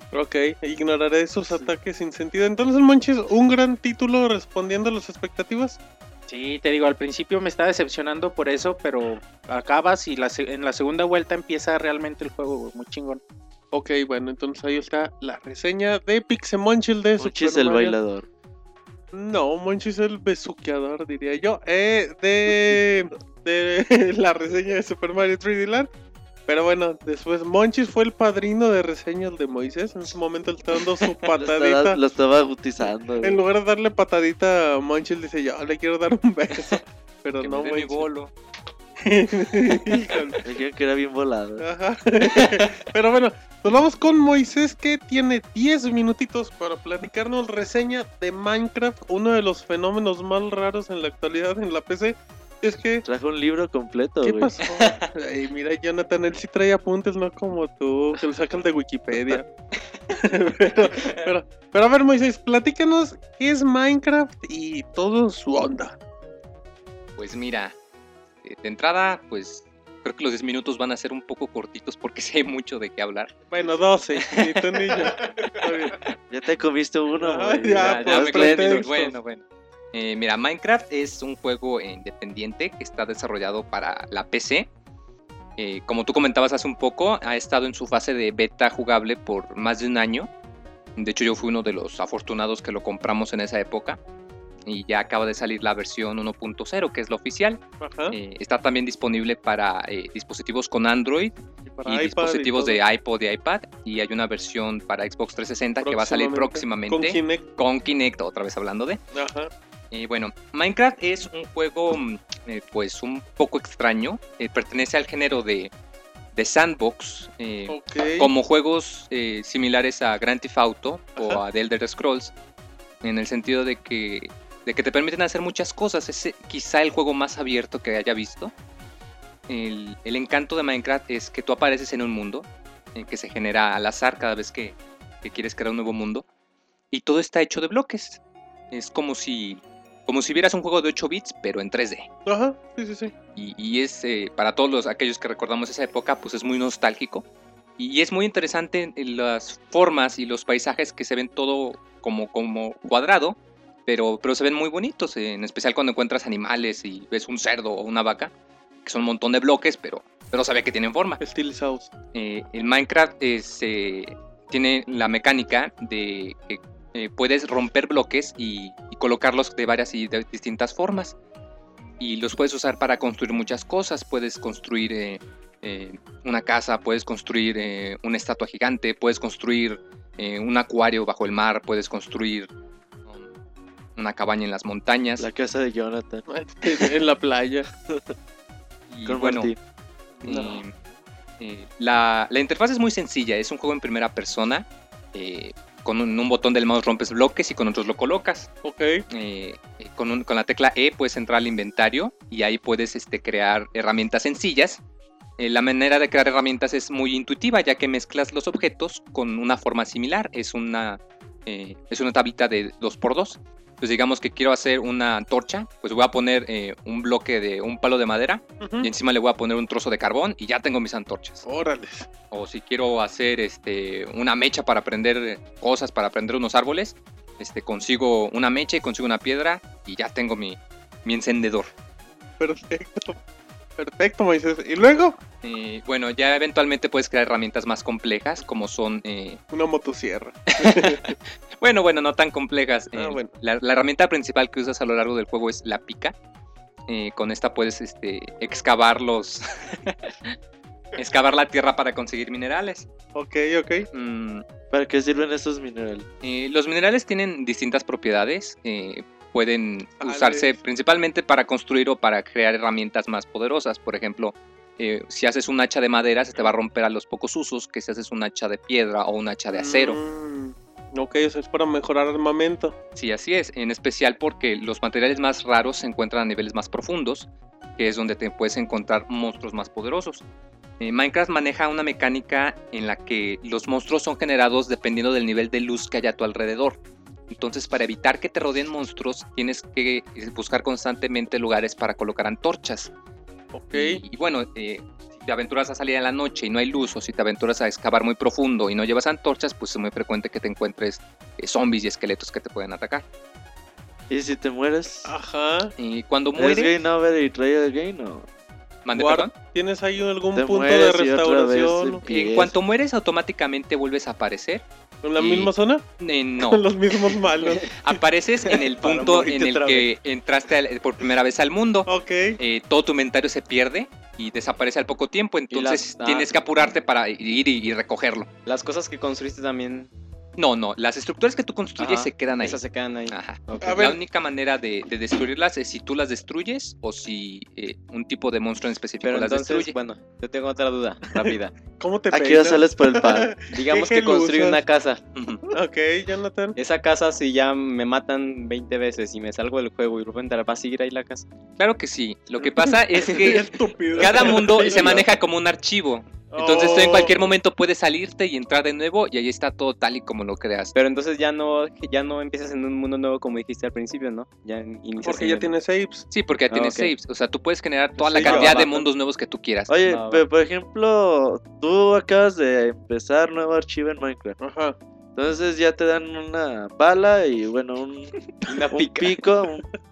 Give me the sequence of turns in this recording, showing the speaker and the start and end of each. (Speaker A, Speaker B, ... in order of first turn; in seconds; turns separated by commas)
Speaker A: 0.1-5.8, Speaker B: 6.3-13.2, Speaker A: 13.7-18.0, Speaker C: 17.2-18.3, Speaker A: 19.1-25.9, Speaker A: 26.5-32.0, Speaker C: 31.4-33.4, Speaker A: 33.2-38.1, Speaker D: 37.4-38.3, Speaker A: 39.0-40.4, Speaker C: 40.4-41.6, Speaker A: 41.6-53.1, Speaker C: 53.0-54.6, Speaker A: 54.2-59.5, Speaker D: 54.7-55.0, Speaker A: 60.1-66.0, Speaker D: 67.2-67.8, Speaker D: 68.4-73.4, Speaker A: 73.5-76.0, Speaker D: 74.2-76.1, Speaker C: 76.3-78.6, Speaker A: 77.2-79.1, Speaker E: 77.8-79.4, Speaker D: 78.0-79.4, Speaker D: 79.9-84.7, Speaker D: 85.6-90.3, Speaker D: 91.0-94.0, Speaker D: 94.7-109.0, Speaker A: 97.8-98.2, Speaker A: 101.7-102.8, Speaker A: 105.8-107.4, Speaker A: 109.1-109.5, Speaker D: 109.9-115.7, Speaker D: 116.3-122.3, Speaker A: 117.7-118.3, Speaker A: 121.2-121.4, Speaker D: 123.0-128.5, Speaker D: 129.5-136.3, Speaker D: 136.9-138.2, Speaker D: 138.7-142.1, Speaker A: 142.3-143.1, Speaker D: 143.3-147.2, Speaker D: 147.8-158.3, Speaker D: 158.8-161.2, Speaker A: 161.2-161.9, Speaker D: 162.1-171.2, Speaker D: 172.0-182.5, Speaker D: 183.1-183.3, Speaker D: 184.0-185.3, Speaker C: 185.2-186.9, Speaker A: 186.3-187.7, Speaker C: 187.8-188.2, Speaker D: 188.9-189.5, Speaker C: 189.1-189.6, Speaker A: 190.2-190.6, Speaker D: 190.2-190.7, Speaker D: 191.4-198.5, Speaker A: 198.6-199.1, Speaker D: 199.1-204.8, Speaker D: 205.4-221.4, Speaker A: 218.6-218.9, Speaker A: 221.4-222.1, Speaker D: 222.3-231.7, Speaker A: 232.4-233.2, Speaker A: 233.8-235.2, Speaker D: 235.4-239.4, Speaker A: 239.5-241.2, Speaker D: 240.6-246.1, Speaker A: 242.9-243.3, Speaker D: 246.9-250.4, Speaker D: 251.0-252.9, Speaker A: 253.2-253.9, Speaker D: 253.9-254.4, Speaker C: 254.7-256.1, Speaker D: 256.2-270.0, Speaker A: 260.0-260.6, Speaker A: 269.5-272.8, Speaker D: 273.0-280.2, Speaker D: 280.8-286.8, Speaker D: 287.3-292.9, Speaker A: 293.5-294.0, Speaker D: 293.7-303.1, Speaker C: 304.1-305.1, Speaker A: 305.1-305.7, Speaker D: 305.8-306.7, Speaker C: 306.4-308.3, Speaker D: 308.9-309.3, Speaker A: 308.9-312.0, Speaker C: 310.4-312.6, Speaker D: 312.1-314.6, Speaker A: 315.0-315.8, Speaker D: 315.2-328.3, Speaker A: 316.4-317.8, Speaker E: 318.5-319.9, Speaker A: 321.9-322.4, Speaker E: 325.5-326.3, Speaker E: 328.5-329.9, Speaker D: 330.4-339.7, Speaker E: 331.8-333.9, Speaker A: 333.6-334.0, Speaker E: 339.0-341.5, Speaker A: 341.1-344.6, Speaker C: 342.1-343.3, Speaker E: 343.5-345.0, Speaker D: 345.1-345.4, Speaker A: 345.5-346.6, Speaker E: 346.6-351.3, Speaker D: 351.6-360.8, Speaker A: 353.0-355.1, Speaker E: 354.2-355.1, Speaker A: 356.3-357.2, Speaker E: 360.8-365.5, Speaker A: 365.0-366.1, Speaker D: 366.1-369.7, Speaker E: 366.5-366.9, Speaker E: 368.0-368.9, Speaker C: 368.2-368.5, Speaker A: 368.2-368.5, Speaker C: 369.7-374.4, Speaker E: 369.8-370.2, Speaker A: 374.4-374.8, Speaker C: 375.2-379.7, Speaker E: 378.4-379.2